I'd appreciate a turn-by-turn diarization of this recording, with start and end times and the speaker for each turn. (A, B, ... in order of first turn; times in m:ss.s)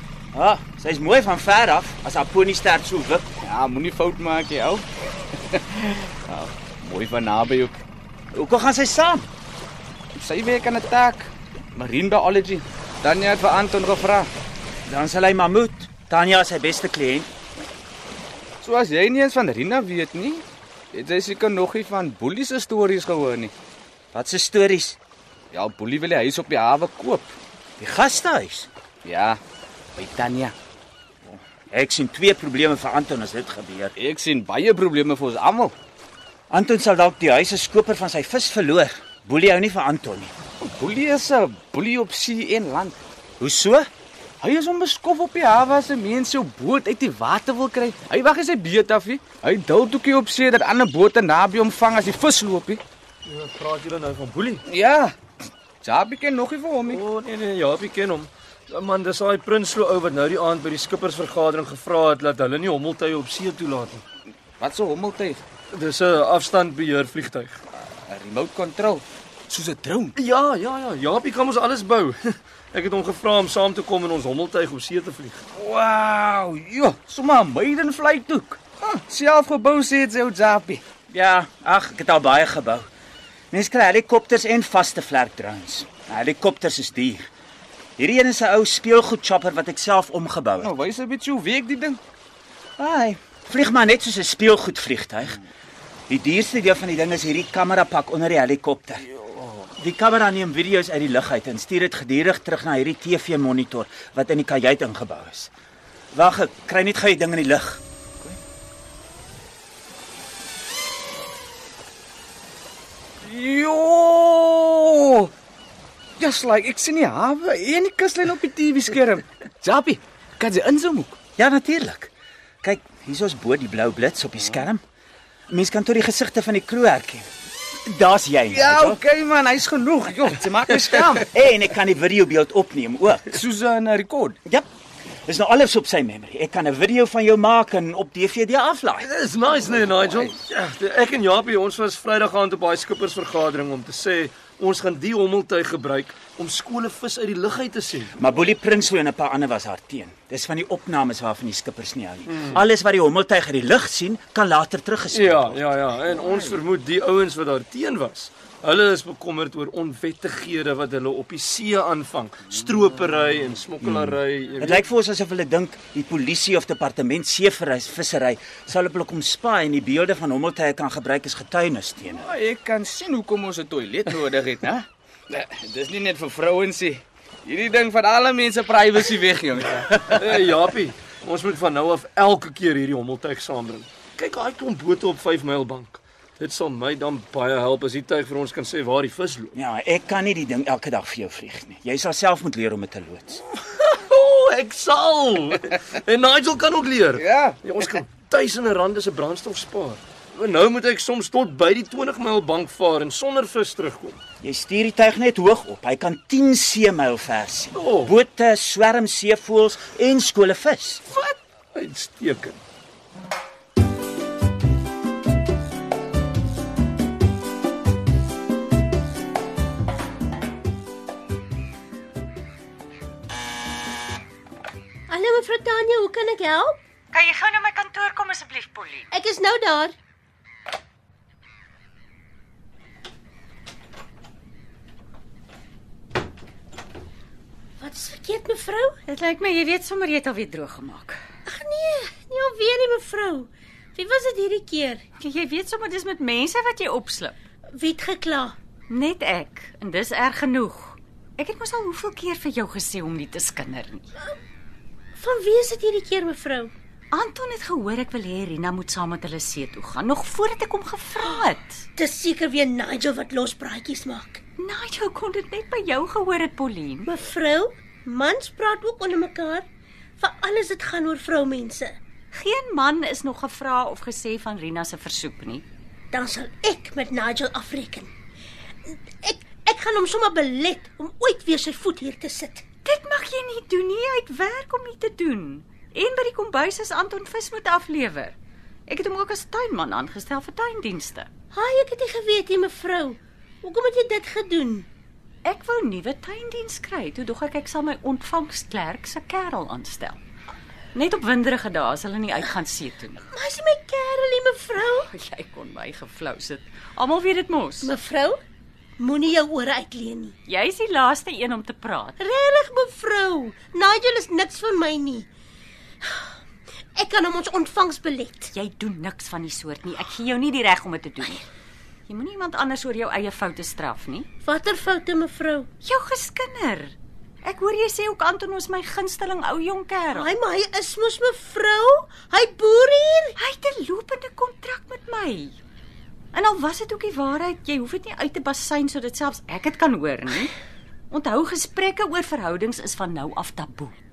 0:00.3-0:03.2 A
0:03.4-0:04.8 B
0:05.4-0:07.8 B
0:08.3-0:09.3 A
0:10.1-0:14.3 B
0:14.9-0:17.3 A
0:18.6-0:23.5 B
0:24.1-0:25.0 A
0:25.5-0:27.3 B
0:27.8-0:28.7 A
0:29.0-0:29.4 B
0:30.0-0:30.5 B
0:31.2-0:33.9 A
0:34.0-0:35.7 B
0:36.5-0:40.3 A
0:40.6-0:43.0 B
0:43.4-0:43.9 A
0:44.4-0:52.8 B
0:53.3-0:54.6 C
0:54.7-0:55.1 B
0:55.8-0:57.0 B
0:56.9-1:04.0 C
1:04.6-1:05.4 B
1:05.7-1:07.6 C
1:07.9-1:10.1 B
1:10.2-1:15.4 C
1:15.6-1:20.8 B
1:21.1-1:22.9 A
1:23.5-1:27.3 A
1:28.0-1:30.7 A
1:30.6-1:32.0 B
1:32.8-1:35.4 A
1:36.1-1:39.1 A
1:39.2-1:39.7 B
1:39.8-1:45.5 A
1:46.1-1:47.8 A
1:53.2-1:55.3 B
1:56.2-2:01.2 B
2:01.4-2:02.1 A
2:02.6-2:04.8 A
2:05.5-2:07.3 A
2:07.8-2:09.0 A
2:08.5-2:11.3 B
2:11.2-2:13.3 A
2:13.3-2:14.4 B
2:15.3-2:19.1 A
2:19.0-2:28.1 C
2:20.0-2:20.3 A
2:28.2-2:35.6 A
2:32.3-2:32.6 C
2:35.1-2:44.8 C
2:43.8-2:52.3 A
2:52.1-3:00.2 B
3:00.1-3:09.6 C
3:09.6-3:13.4 A
3:13.8-3:24.2 C
3:17.2-3:17.6 B
3:24.4-3:31.0 A
3:27.8-3:28.1 C
3:31.1-3:32.6 C
3:45.1-3:46.8 D
3:47.1-3:49.1 E
3:49.1-3:49.9 D
3:57.8-3:59.0 D
3:59.1-4:01.2 E
4:01.5-4:05.0 D
4:05.2-4:07.4 E
4:07.8-4:08.6 D
4:08.9-4:14.1 E
4:15.2-4:16.7 D
4:17.1-4:21.9 E
4:22.0-4:24.4 D
4:24.6-4:27.1 E
4:27.1-4:29.6 D
4:30.2-4:32.0 D
4:32.3-4:35.6 E
4:36.1-4:38.1 D
4:38.9-4:42.6 D
4:42.8-4:48.4 E
4:48.9-4:51.3 E
4:51.5-4:54.9 D
4:55.4-5:00.2 E
5:00.9-5:03.2 E
5:03.3-5:05.1 D
5:05.0-5:07.9 E
5:07.8-5:08.4 D
5:09.0-5:10.4 D
5:10.5-5:12.2 E
5:12.2-5:15.3 D
5:16.0-5:16.3 D
5:17.0-5:18.5 D
5:18.5-5:21.4 E
5:22.1-5:24.3 E
5:24.4-5:25.7 D
5:25.8-5:30.3 E
5:30.1-5:33.4 D
5:33.4-5:35.6 E
5:36.3-5:40.5 E
5:41.1-5:44.0 E